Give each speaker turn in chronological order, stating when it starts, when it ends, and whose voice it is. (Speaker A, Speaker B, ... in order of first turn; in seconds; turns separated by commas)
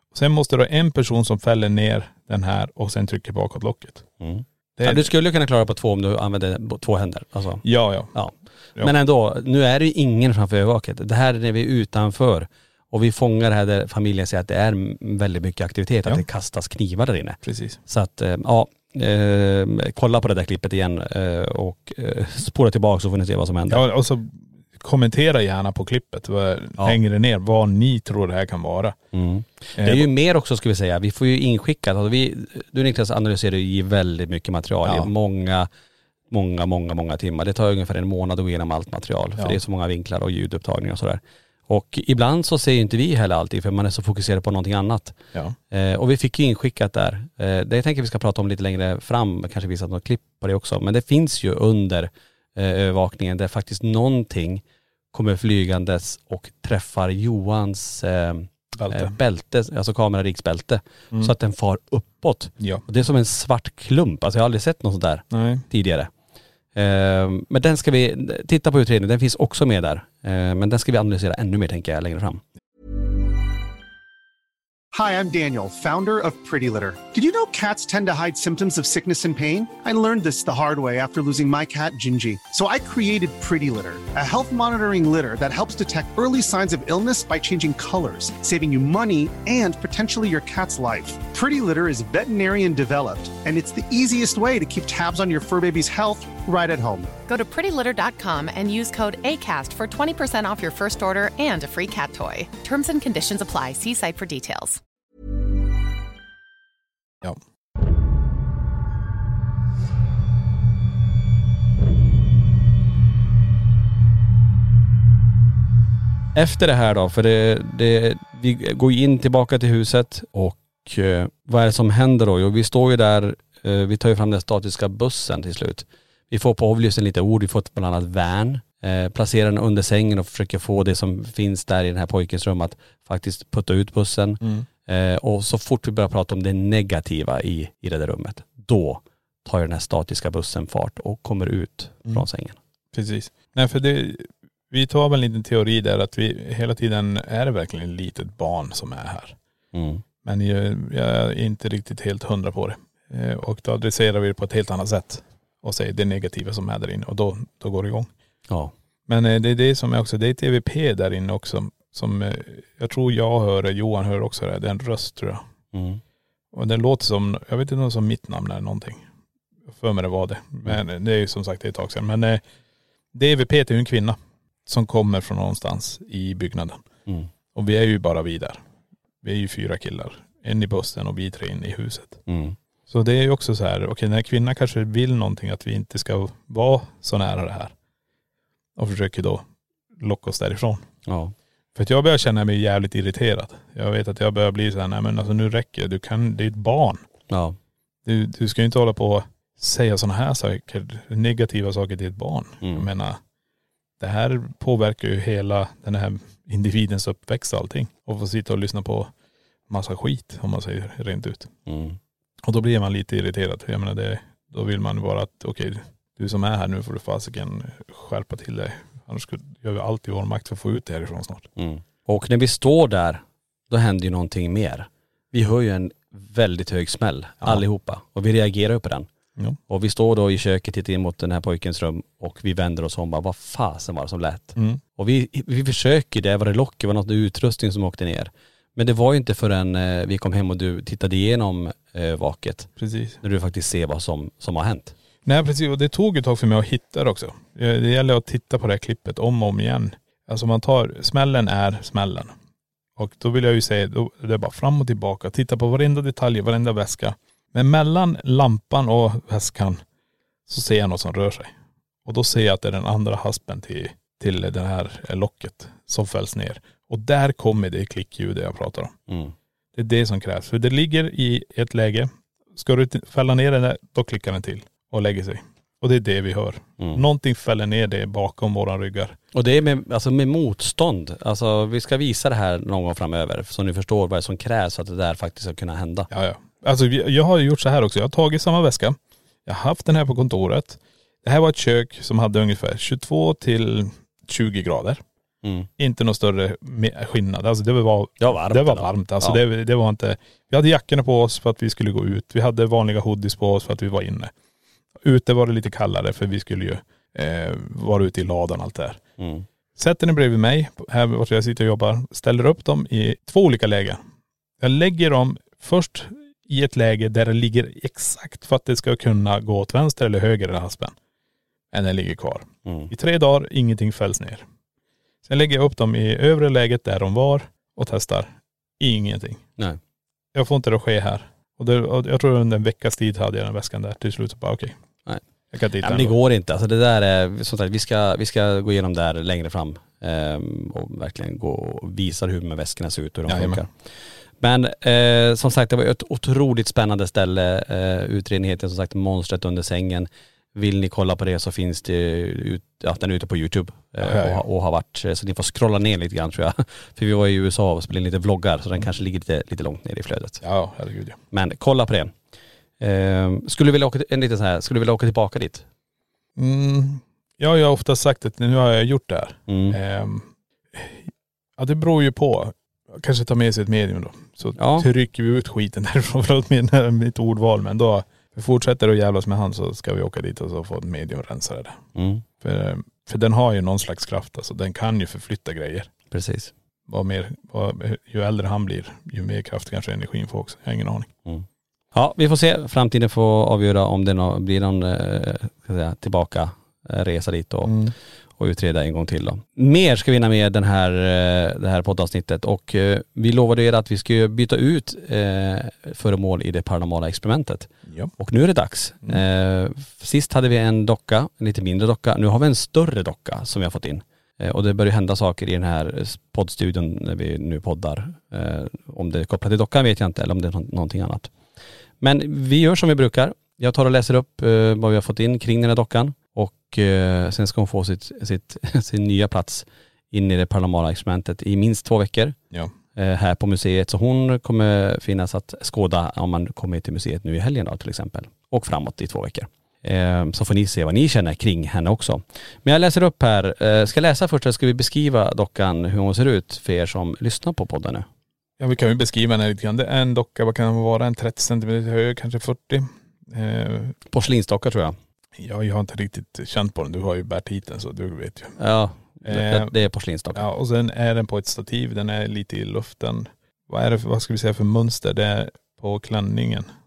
Speaker A: 0.1-4.1, Speaker B: 4.2-23.8, Speaker A: 4.8-5.1, Speaker A: 7.6-8.1, Speaker A: 17.4-17.8, Speaker A: 23.7-29.0, Speaker B: 29.1-35.7, Speaker A: 29.8-30.1, Speaker A: 34.8-35.1, Speaker B: 36.3-45.2, Speaker B: 45.7-54.6, Speaker B: 55.1-66.1, Speaker A: 58.8-59.1, Speaker A: 65.3-65.6, Speaker B: 66.7-72.4, Speaker C: 74.9-97.1, Speaker D: 97.3-104.8, Speaker B: 116.3-142.6, Speaker A: 134.4-134.7, Speaker A: 142.9-149.4, Speaker B: 149.7-150.0, Speaker A: 150.2-158.1, Speaker A: 159.1-165.4, Speaker B: 165.7-166.0, Speaker A: 166.5-169.0, Speaker A: 169.7-172.4, Speaker A: 173.1-176.8, Speaker A: 177.5-178.6, Speaker A: 179.2-182.2, Speaker B: 182.3-182.6, Speaker A: 182.9-187.7, Speaker A: 188.8-189.4, Speaker A: 190.0-190.8, Speaker B: 191.1-191.3, Speaker A: 191.7-197.0, Speaker B: 197.3-197.6, Speaker A: 198.0-203.2, Speaker A: 204.0-209.1, Speaker A: 209.7-211.5, Speaker B: 211.7-212.0, Speaker A: 212.4-221.5, Speaker B: 221.6-229.1, Speaker B: 229.7-244.9, Speaker A: 242.8-243.2, Speaker A: 245.2-252.3, Speaker A: 252.9-259.8, Speaker A: 260.5-261.5, Speaker A: 262.0-268.9, Speaker B: 269.1-269.3, Speaker A: 269.7-279.2, Speaker B: 276.8-277.0, Speaker B: 279.3-286.1, Speaker A: 286.1-295.0, Speaker B: 295.4-295.7, Speaker A: 295.8-304.3, Speaker B: 298.2-299.4, Speaker A: 305.0-309.0, Speaker B: 309.2-309.4, Speaker A: 309.8-314.0, Speaker A: 314.6-320.9, Speaker A: 321.7-324.4, Speaker B: 322.6-322.9, Speaker A: 325.2-329.4, Speaker A: 330.3-334.8, Speaker A: 335.5-336.1, Speaker B: 335.8-360.4, Speaker A: 343.3-343.6, Speaker A: 354.0-354.4, Speaker A: 360.4-361.2, Speaker B: 361.3-362.1, Speaker B: 362.8-365.6, Speaker A: 366.4-381.8, Speaker B: 369.5-369.8, Speaker B: 374.6-374.9, Speaker B: 381.9-382.2, Speaker A: 382.4-385.9, Speaker B: 386.1-386.5, Speaker A: 386.9-391.1, Speaker B: 391.2-397.8, Speaker A: 397.6-397.9, Speaker B: 398.4-421.3, Speaker B: 422.0-432.4, Speaker B: 432.9-448.1, Speaker A: 448.6-453.9, Speaker B: 454.1-454.9, Speaker A: 455.4-458.6, Speaker B: 458.6-460.4, Speaker A: 459.2-459.7, Speaker A: 460.3-466.7